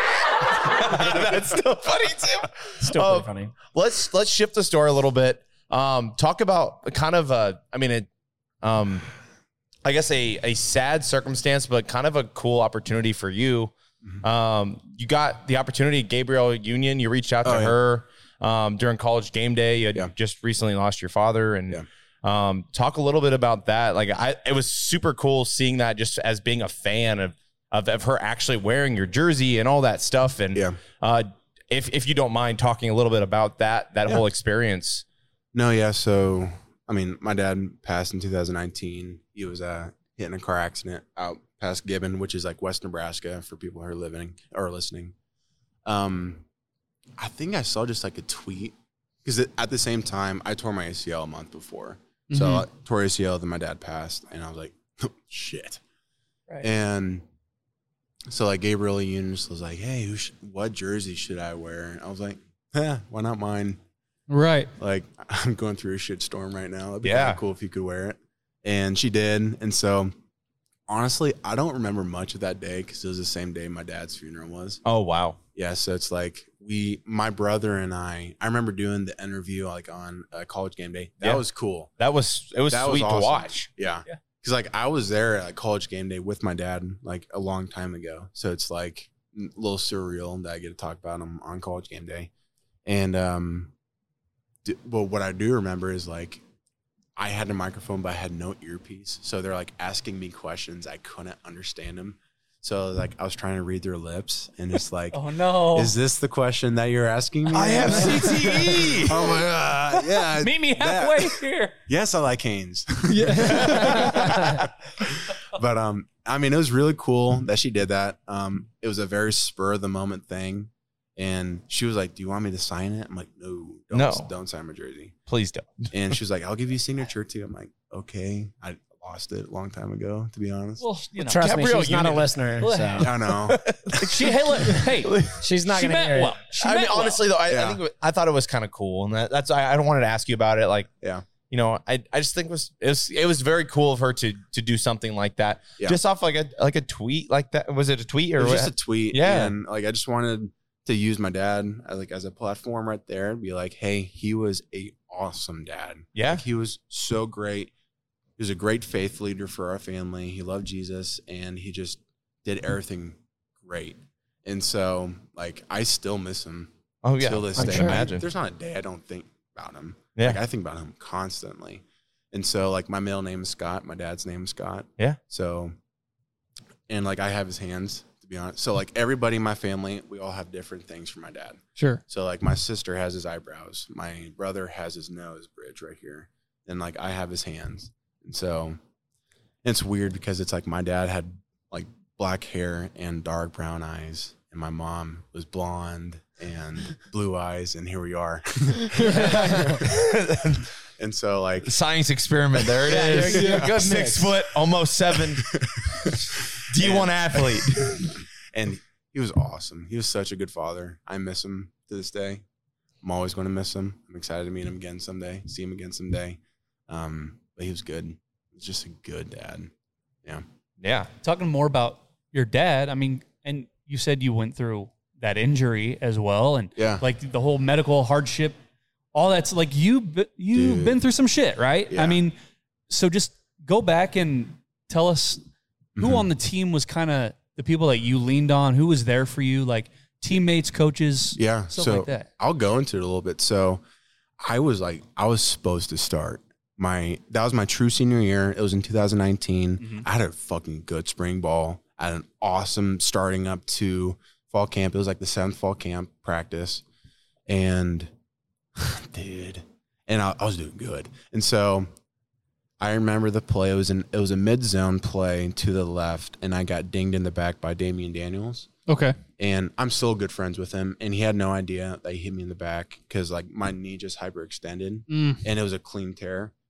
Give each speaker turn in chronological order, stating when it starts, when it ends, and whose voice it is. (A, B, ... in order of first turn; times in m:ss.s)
0:00.5-0:08.1 A
0:02.8-0:03.5 B
0:08.6-0:09.0 A
0:09.8-0:35.0 A
0:17.4-0:17.8 C
0:35.5-0:45.1 C
0:45.8-0:46.4 C
0:47.2-0:55.8 C
0:52.3-0:52.6 D
0:56.6-0:57.2 C
0:58.3-1:03.8 C
1:04.3-1:04.7 D
1:04.8-1:10.1 C
1:07.0-1:07.4 A
1:10.9-1:14.8 C
1:14.8-1:15.4 A
1:15.5-1:21.9 C
1:22.0-1:23.7 A
1:22.7-1:32.3 C
1:32.8-1:33.7 C
1:34.6-1:36.4 C
1:37.2-2:05.2 C
1:45.1-1:45.9 E
1:47.5-1:49.2 A
1:47.9-1:51.7 E
1:53.1-1:54.2 D
1:53.8-1:54.1 A
2:03.9-2:04.3 A
2:05.3-2:05.9 A
2:05.9-2:10.8 C
2:10.8-2:11.4 E
2:11.2-2:13.1 B
2:11.3-2:12.3 A
2:12.6-2:13.1 E
2:13.0-2:13.6 C
2:13.3-2:15.4 A
2:14.0-2:15.1 E
2:15.3-2:16.4 B
2:15.7-2:17.2 E
2:16.6-2:20.9 A
2:17.5-2:17.8 C
2:21.5-2:29.5 A
2:28.4-2:37.7 C
2:36.1-2:36.4 A
2:38.4-2:55.8 C
2:47.0-2:48.2 A
2:47.6-2:48.1 B
2:56.9-3:08.8 C
3:01.8-3:02.0 D
3:09.6-3:19.8 C
3:19.0-3:19.8 B
3:19.5-3:20.6 A
3:21.0-3:21.7 C
3:21.6-3:25.5 A
3:22.8-3:24.4 B
3:25.4-3:32.4 C
3:26.7-3:27.8 A
3:33.0-3:39.7 C
3:40.8-3:41.1 A
3:41.2-3:48.6 E
3:46.8-3:47.0 C
3:49.1-3:52.3 E
3:50.5-3:51.0 C
3:51.9-3:52.2 C
3:52.9-3:55.4 E
3:56.0-3:56.3 C
3:56.0-4:02.3 E
4:01.3-4:03.8 C
4:04.4-4:16.8 C
4:17.5-4:18.1 C
4:18.8-4:21.9 C
4:22.8-4:28.7 C
4:28.9-4:29.2 D
4:29.4-4:36.5 C
4:35.1-4:35.4 D